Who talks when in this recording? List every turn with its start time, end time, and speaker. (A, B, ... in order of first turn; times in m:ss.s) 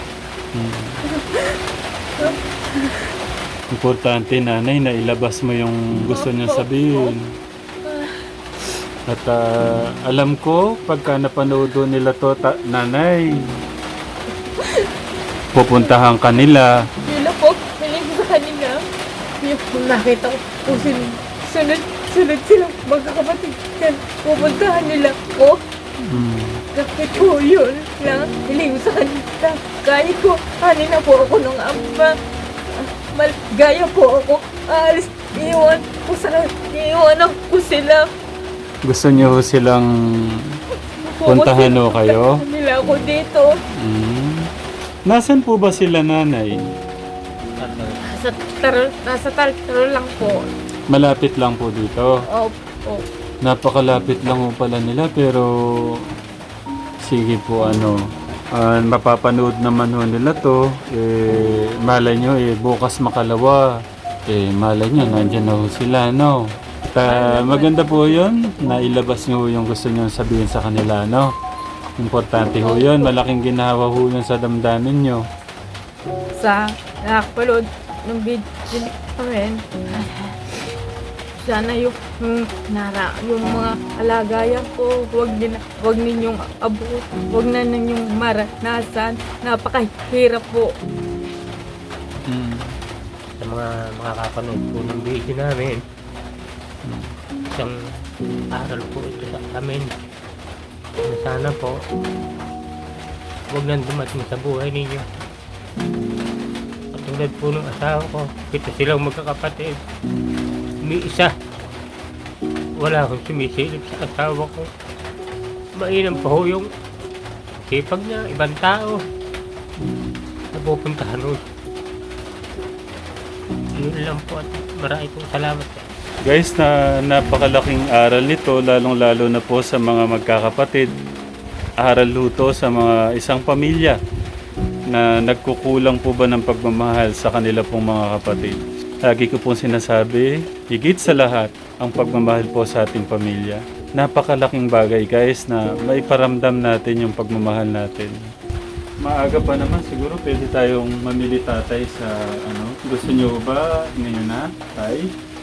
0:00.5-0:01.0 A
0:01.1-0:01.5 B
0:02.2-0:02.9 B
0:03.7-0:07.2 A
0:06.1-0:07.1 B
0:07.9-0:08.2 B
0:09.1-0:13.3 A
0:14.6-0:14.9 B
0:15.5-0:16.8 A
0:17.0-0:18.8 B
0:19.4-0:25.6 B
0:26.0-0:26.6 A
0:26.7-0:32.1 B
0:33.1-0:38.0 B
0:38.8-0:40.4 A
0:41.2-0:43.5 B
0:41.3-0:42.4 A
0:43.8-0:44.5 A
0:45.1-0:46.6 A
0:47.6-0:48.0 C
0:48.0-0:50.5 B
0:50.9-0:52.1 A
0:52.3-0:53.0 B
0:53.4-0:56.0 A
0:57.0-0:58.0 A
0:58.5-1:03.7 A
1:04.3-1:06.4 A
1:06.9-1:11.3 A
1:07.0-1:08.2 B
1:12.0-1:15.2 A
1:12.6-1:13.1 B
1:17.1-1:20.4 B
1:21.4-1:30.7 B
1:32.3-1:32.7 A
1:33.4-1:35.8 C
1:36.8-1:37.1 A
1:38.6-1:39.9 C
1:41.0-1:41.8 C
1:43.5-1:45.1 C
1:46.9-1:49.8 C
1:50.8-1:51.3 C
1:52.8-1:54.7 C
1:55.8-1:56.7 C
1:57.6-1:59.0 C
2:00.5-2:01.4 C
2:03.8-2:05.8 C
2:06.2-2:10.9 A
2:11.8-2:14.0 A
2:14.9-2:28.2 A
2:29.0-2:35.1 A